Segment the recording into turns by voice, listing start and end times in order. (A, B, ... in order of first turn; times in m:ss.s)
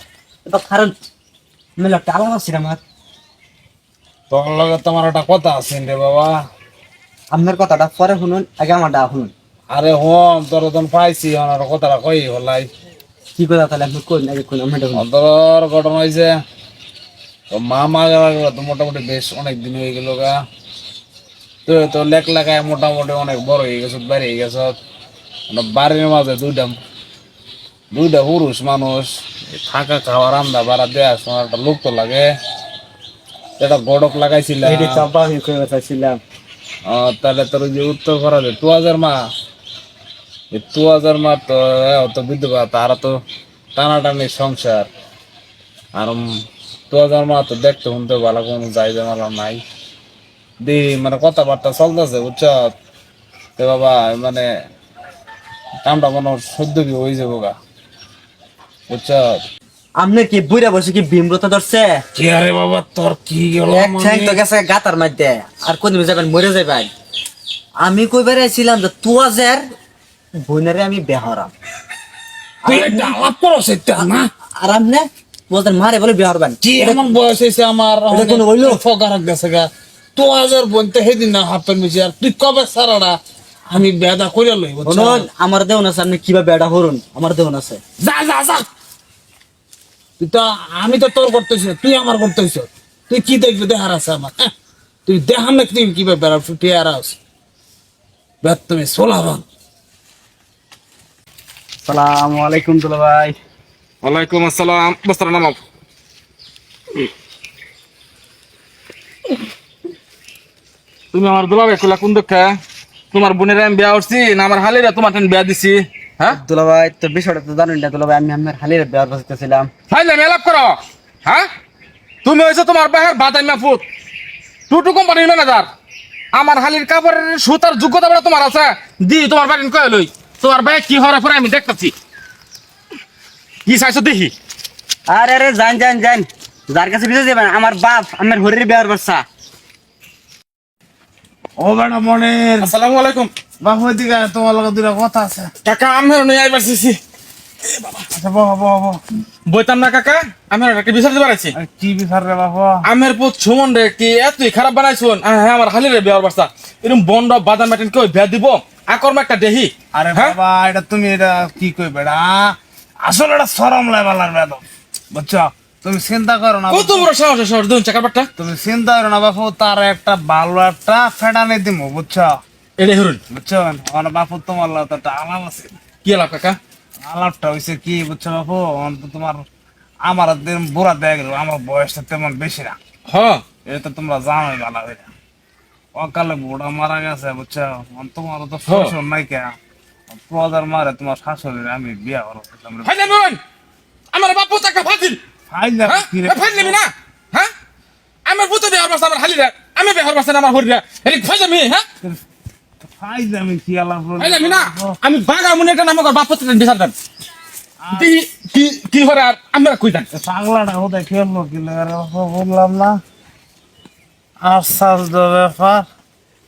0:00.4-0:01.0 A
0:01.8-0:02.8 A
0:04.3-0:06.4 B
0:07.3-0:09.3 A
0:09.7-0:12.7 B
0:13.4-0:15.0 A
0:14.9-0:16.3 B
0:17.5-0:20.4 B
0:21.6-0:24.8 B
0:25.5-0:26.8 B
0:27.9-0:32.3 B
0:33.6-0:35.0 B
0:34.6-0:36.2 A
0:36.8-0:39.3 B
0:40.5-0:43.2 B
0:43.7-0:44.9 B
0:45.9-0:49.6 B
0:50.6-0:52.7 B
0:53.6-0:54.5 B
0:55.8-0:57.6 B
0:58.9-0:59.4 B
1:00.0-1:02.0 A
1:02.1-1:04.4 B
1:03.7-1:06.9 A
1:07.8-1:09.6 A
1:10.4-1:11.5 A
1:12.6-1:13.2 A
1:12.6-1:14.3 B
1:14.0-1:17.1 A
1:16.6-1:23.2 B
1:18.1-1:18.8 A
1:23.7-1:25.3 B
1:24.8-1:27.8 A
1:28.0-1:28.6 B
1:30.2-1:34.5 B
1:35.0-1:37.2 B
1:38.4-1:39.4 B
1:41.8-1:43.3 A
1:44.0-1:45.6 C
1:51.1-1:52.6 C
1:53.1-1:56.4 C
1:56.3-1:59.7 A
1:59.9-2:01.5 C
2:02.2-2:03.8 C
2:04.7-2:05.7 C
2:06.3-2:11.9 C
2:13.6-2:14.3 C
2:15.1-2:19.2 A
2:21.6-2:22.7 B
2:22.6-2:23.3 C
2:23.6-2:25.5 B
2:25.6-2:27.0 C
2:27.6-2:28.1 C
2:28.1-2:29.0 B
2:29.5-2:31.5 C
2:31.5-2:32.8 B
2:32.8-2:40.4 C
2:39.9-2:47.1 B
2:46.7-2:48.3 C
2:48.4-2:52.4 B
2:52.8-2:53.2 C
2:53.3-2:55.8 B
2:56.0-2:56.6 C
2:57.0-2:59.4 B
3:00.0-3:02.8 B
3:03.1-3:03.4 C
3:03.6-3:05.1 B
3:06.0-3:09.6 B
3:08.7-3:08.9 C
3:10.1-3:12.9 B
3:12.8-3:13.4 C
3:14.1-3:15.2 C
3:15.5-3:16.8 B
3:15.8-3:17.5 C
3:18.2-3:21.8 C
3:22.8-3:25.0 B
3:24.2-3:26.9 C
3:27.8-3:28.1 B
3:27.9-3:30.1 C
3:30.1-3:33.0 B
3:34.4-3:35.9 B